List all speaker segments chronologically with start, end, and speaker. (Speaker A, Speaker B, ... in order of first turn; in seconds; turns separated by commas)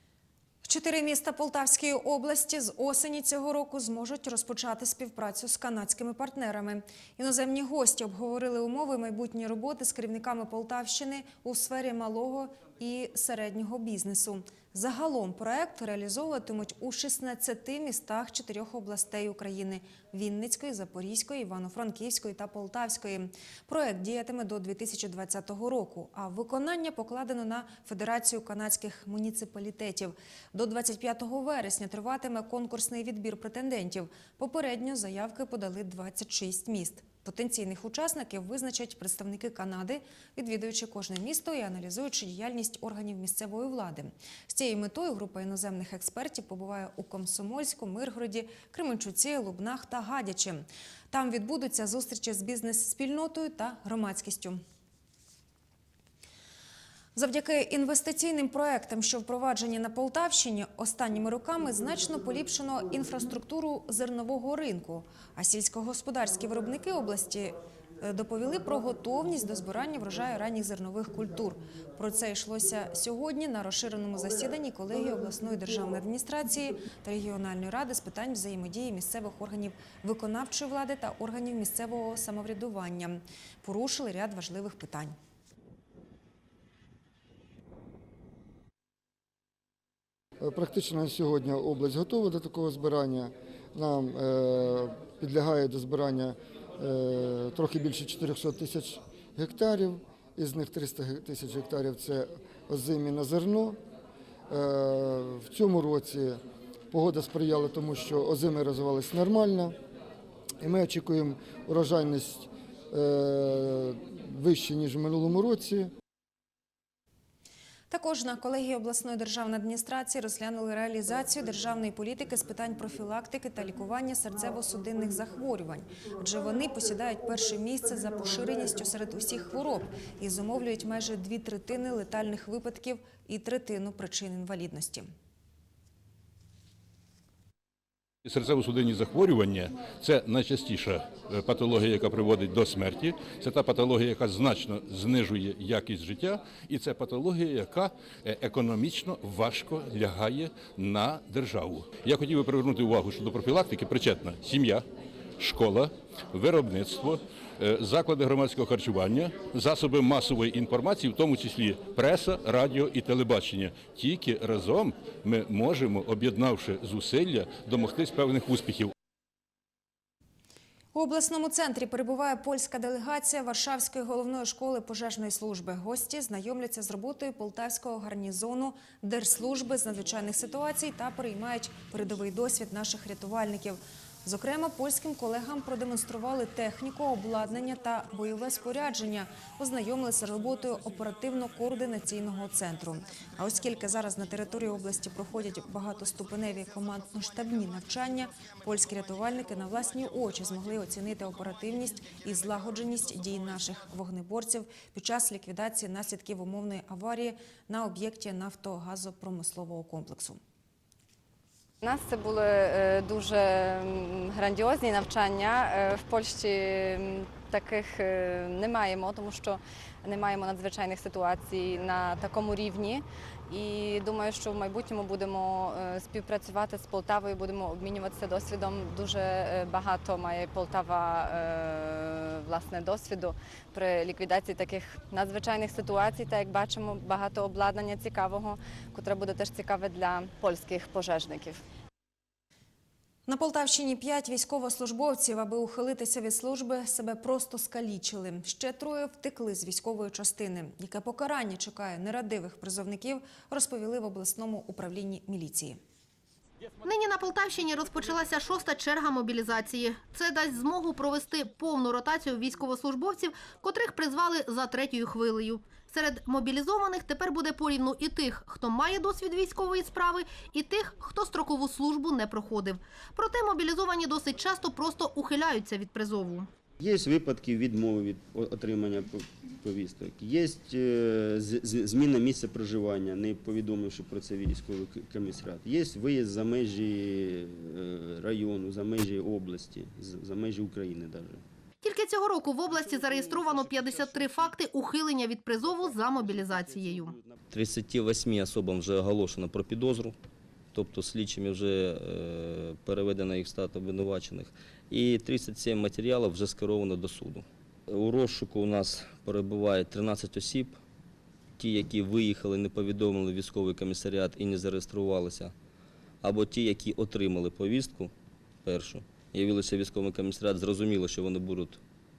Speaker A: 0.6-54.6, Speaker A: 57.1-85.1, Speaker B: 90.4-103.8, Speaker B: 104.5-109.8, Speaker B: 110.6-115.9, Speaker A: 117.9-135.1, Speaker C: 138.2-154.8, Speaker C: 155.4-168.9, Speaker A: 170.9-210.4, Speaker D: 211.8-241.6, Speaker A: 243.3-255.8, Speaker E: 256.8-276.5, Speaker F: 276.8-291.4, Speaker E: 291.8-297.2, Speaker F: 292.7-294.6, Speaker F: 295.6-297.4, Speaker G: 297.5-300.1, Speaker G: 300.7-310.8, Speaker G: 311.6-315.5, Speaker G: 316.2-318.1, Speaker G: 318.6-321.8